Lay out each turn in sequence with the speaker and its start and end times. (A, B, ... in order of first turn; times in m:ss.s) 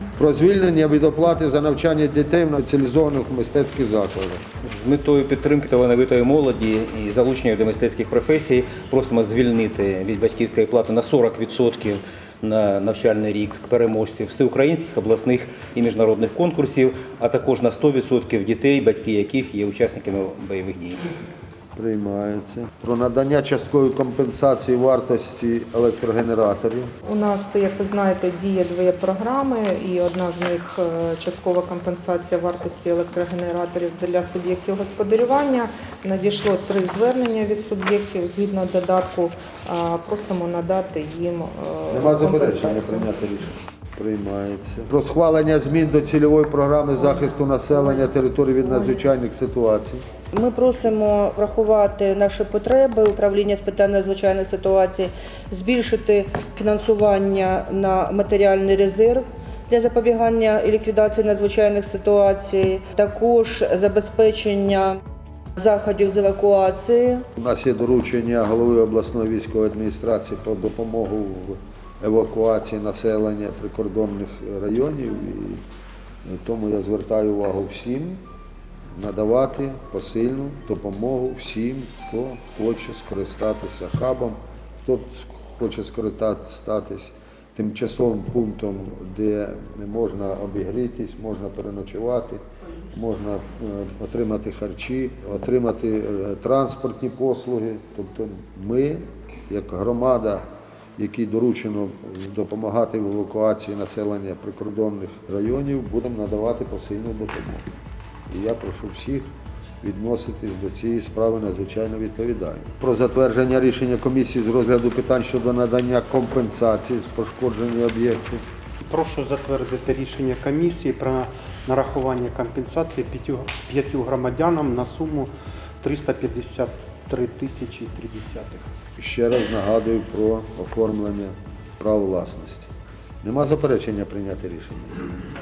0:00.2-0:04.4 A
0:04.6-0:21.0 B
0:21.8-0:26.9 A
0:27.1-0:43.1 C
0:41.9-0:50.0 A
0:50.3-1:05.0 D
1:05.6-1:07.2 D
1:07.4-1:15.6 A
1:16.2-1:18.2 A
1:19.0-1:32.4 A
1:32.9-1:40.5 A
1:41.0-1:47.7 A
1:48.3-1:49.3 A
1:49.8-1:58.4 A
1:58.9-2:05.3 E
2:05.8-2:08.7 E
2:09.0-2:12.7 A
2:13.2-2:15.1 A